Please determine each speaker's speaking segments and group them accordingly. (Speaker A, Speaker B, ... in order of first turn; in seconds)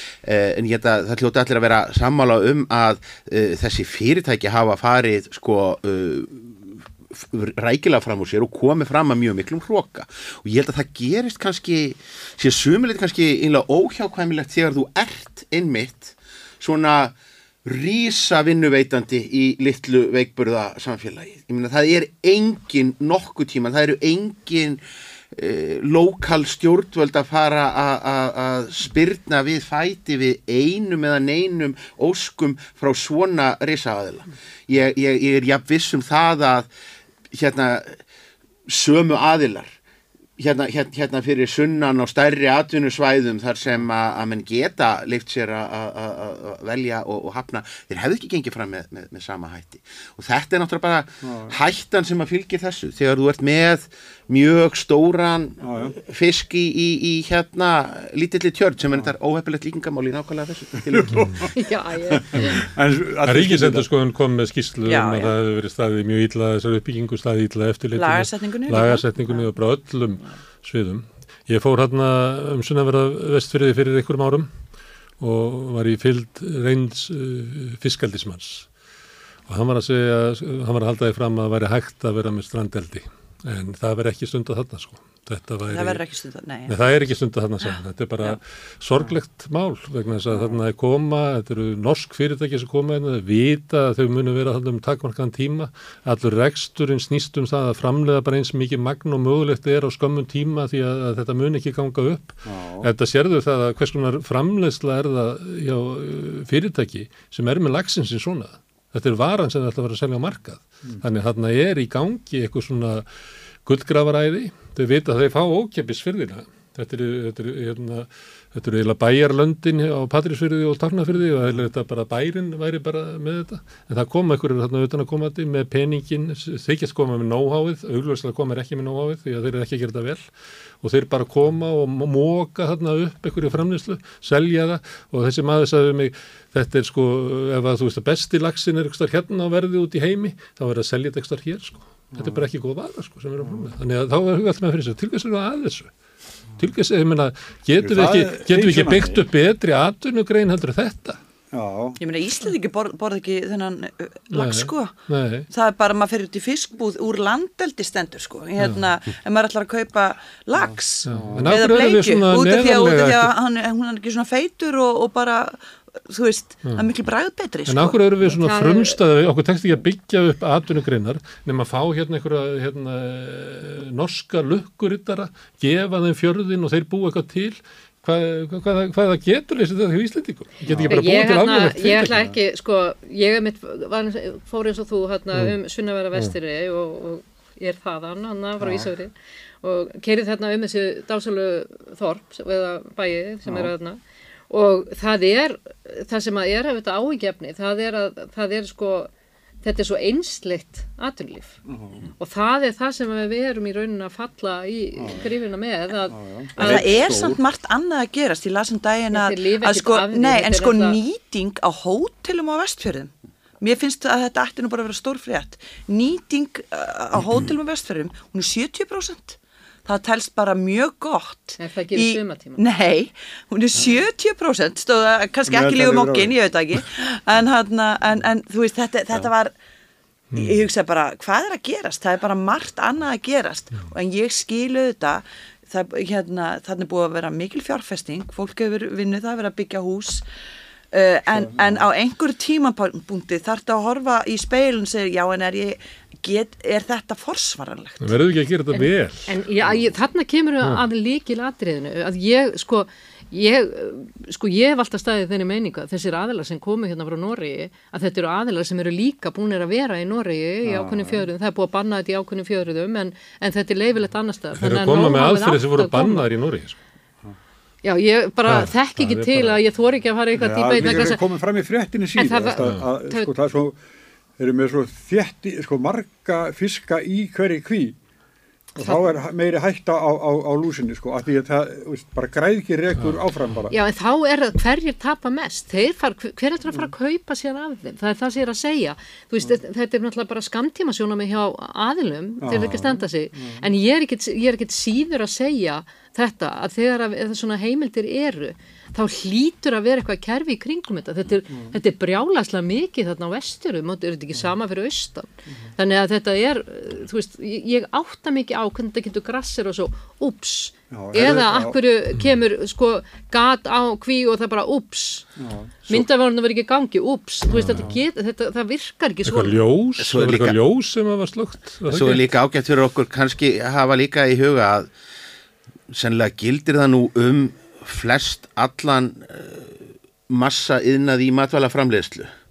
Speaker A: 0.2-24.8, 25.3-36.7, 37.3-38.0, 38.7-39.7, 40.4-61.5, 320.0-320.6, 321.9-324.9, 325.9-332.3
Speaker B: 51.2-51.5, 55.6-56.0, 60.9-61.4, 62.2-63.9, 102.5-102.9, 142.1-142.4, 143.4-143.7, 147.8-149.2, 151.5-152.0, 160.6-161.6, 180.7-181.0, 188.6-188.9, 193.4-193.7, 201.7-202.0, 205.0-205.3, 206.1-206.5, 225.5-226.3, 241.3-241.8, 260.6-261.3, 270.4-273.8, 274.4-278.0, 278.8-283.8, 292.4-293.7, 301.5-301.8, 310.9-311.8, 315.4-315.7, 317.7-318.0
Speaker C: 61.5-62.6, 168.4-169.0, 180.8-194.0, 194.5-199.1, 199.6-201.6, 202.2-207.0, 209.1-211.0, 221.6-222.6, 248.7-266.3, 267.8-271.2, 272.2-273.3, 278.8-279.0, 283.7-315.3, 315.9-319.6
Speaker D: 63.2-74.5, 75.2-78.7, 79.5-86.0, 86.7-113.0, 113.6-130.2, 130.8-145.9, 146.6-151.2, 154.3-155.5, 158.6-158.8, 161.1-163.3, 167.7-182.1, 206.6-207.3, 248.0-249.3, 264.6-266.8, 268.5-269.6, 317.5-317.9, 319.2-322.3
Speaker E: 64.9-65.3, 68.0-69.5, 85.7-86.7, 152.0-154.9, 155.5-168.0, 206.6-229.5, 230.3-240.2, 240.9-248.1